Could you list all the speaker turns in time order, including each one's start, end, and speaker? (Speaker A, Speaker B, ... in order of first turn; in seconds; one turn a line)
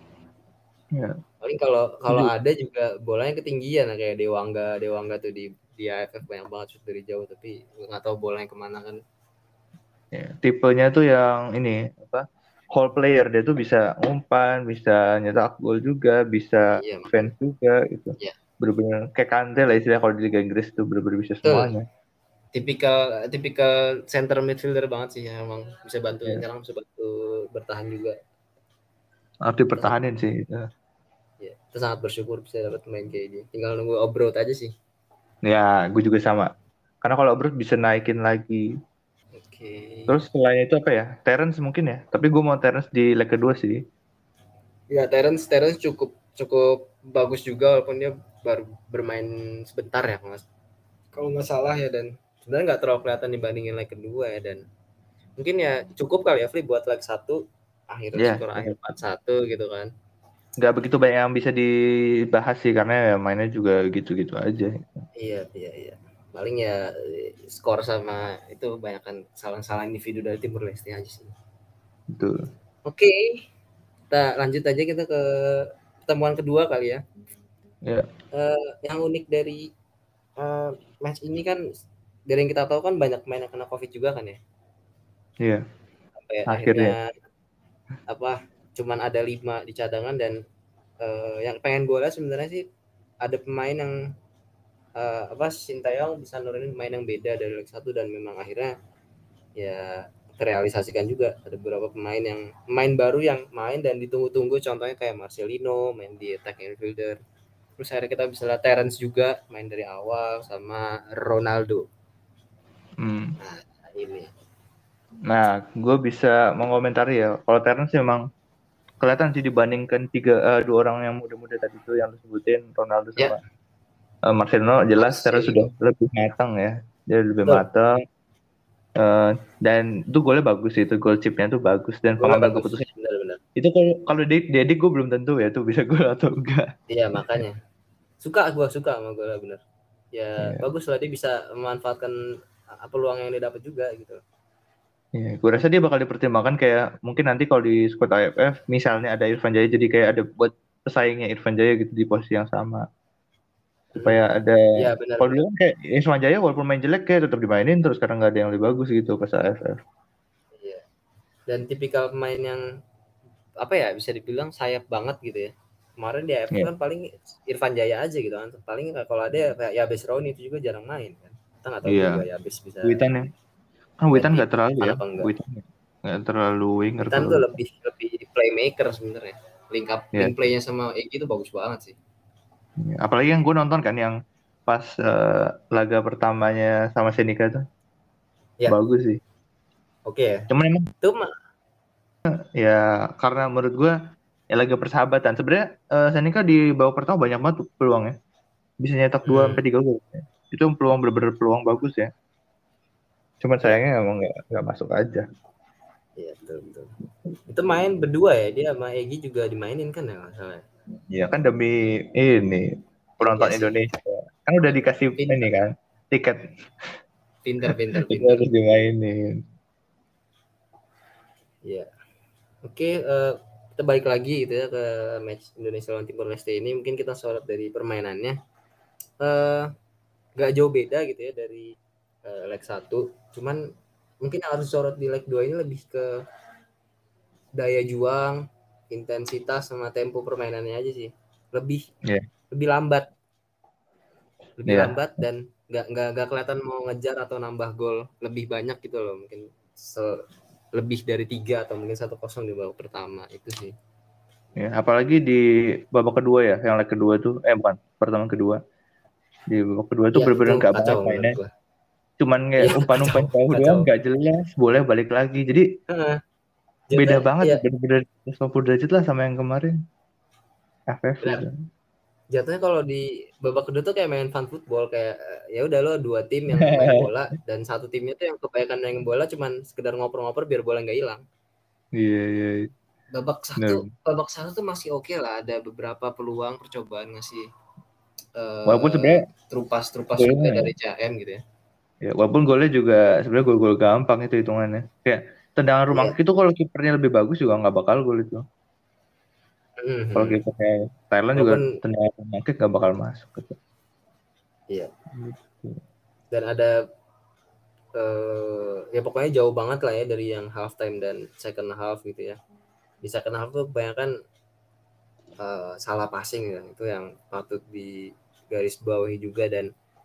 Speaker A: 1.4-9.0
Speaker B: 10.1-21.8
Speaker A: 16.8-17.3
Speaker A: 21.4-21.7
Speaker A: 22.5-28.1
Speaker B: 29.5-30.6
Speaker A: 29.7-30.0
Speaker A: 31.4-34.7
Speaker B: 35.4-36.5
Speaker B: 37.0-38.6
Speaker A: 39.4-40.2
Speaker B: 40.1-43.8
Speaker A: 44.9-50.4
Speaker A: 51.1-54.6
Speaker A: 55.4-57.4
Speaker A: 57.9-59.9
Speaker B: 58.2-58.7
Speaker B: 60.6-61.7
Speaker B: 62.3-64.9
Speaker A: 65.2-71.3
Speaker A: 72.9-73.3
Speaker A: 74.1-77.0
Speaker A: 78.3-79.6
Speaker A: 80.4-81.6
Speaker A: 82.3-84.4
Speaker A: 86.2-87.1
Speaker B: 86.5-87.0
Speaker A: 88.1-90.3
Speaker A: 91.0-92.6
Speaker A: 93.2-94.0
Speaker A: 95.0-98.7
Speaker A: 99.6-107.2
Speaker A: 107.8-111.8
Speaker B: 113.0-113.3
Speaker A: 113.4-114.3
Speaker B: 115.3-118.2
Speaker B: 119.0-123.4
Speaker B: 124.3-127.9
Speaker A: 125.0-125.7
Speaker B: 129.0-132.8
Speaker A: 132.2-133.4
Speaker B: 133.6-136.7
Speaker A: 136.9-137.6
Speaker A: 138.2-139.6
Speaker A: 140.1-142.1
Speaker A: 142.8-144.2
Speaker B: 145.2-152.8
Speaker A: 153.9-154.2
Speaker B: 154.0-154.6
Speaker A: 154.8-155.3
Speaker B: 155.2-159.8
Speaker A: 161.5-162.6
Speaker A: 163.6-173.0
Speaker B: 171.9-172.2
Speaker B: 172.8-173.2
Speaker B: 174.0-177.5
Speaker A: 174.1-175.3
Speaker A: 177.1-181.9
Speaker B: 182.8-184.2
Speaker B: 184.7-187.6
Speaker B: 188.7-189.2
Speaker A: 190.1-190.4
Speaker B: 190.5-190.9
Speaker A: 191.0-191.3
Speaker B: 192.6-193.9
Speaker B: 194.5-198.1
Speaker B: 198.8-202.1
Speaker A: 199.2-199.6
Speaker B: 203.4-205.2
Speaker A: 206.2-206.9
Speaker A: 207.5-210.6
Speaker B: 211.1-216.4
Speaker A: 213.2-213.8
Speaker A: 215.2-215.6
Speaker A: 217.4-218.5
Speaker B: 218.0-219.4
Speaker A: 221.6-221.9
Speaker A: 222.6-228.3
Speaker A: 229.2-229.7
Speaker A: 230.4-231.7
Speaker A: 232.2-233.6
Speaker A: 234.2-236.1
Speaker A: 237.6-241.8
Speaker A: 242.5-243.1
Speaker A: 244.6-250.2
Speaker B: 244.7-245.0
Speaker A: 250.7-253.7
Speaker B: 254.6-258.6
Speaker B: 259.5-261.4
Speaker A: 260.1-261.5
Speaker B: 262.2-265.6
Speaker A: 262.6-263.9
Speaker A: 265.9-266.2
Speaker A: 266.9-267.6
Speaker B: 266.9-269.7
Speaker B: 270.9-271.5
Speaker A: 272.3-281.2
Speaker B: 276.6-277.0
Speaker B: 282.0-282.7
Speaker A: 283.1-287.4
Speaker B: 283.6-283.9
Speaker A: 288.4-291.4
Speaker B: 288.7-289.2
Speaker B: 290.2-290.7
Speaker B: 292.0-298.4
Speaker A: 295.9-296.2
Speaker A: 299.8-300.4
Speaker B: 300.1-303.6
Speaker A: 301.4-301.7
Speaker B: 305.1-305.8
Speaker A: 306.3-306.7
Speaker A: 308.0-312.4
Speaker A: 313.0-314.1
Speaker A: 315.4-319.7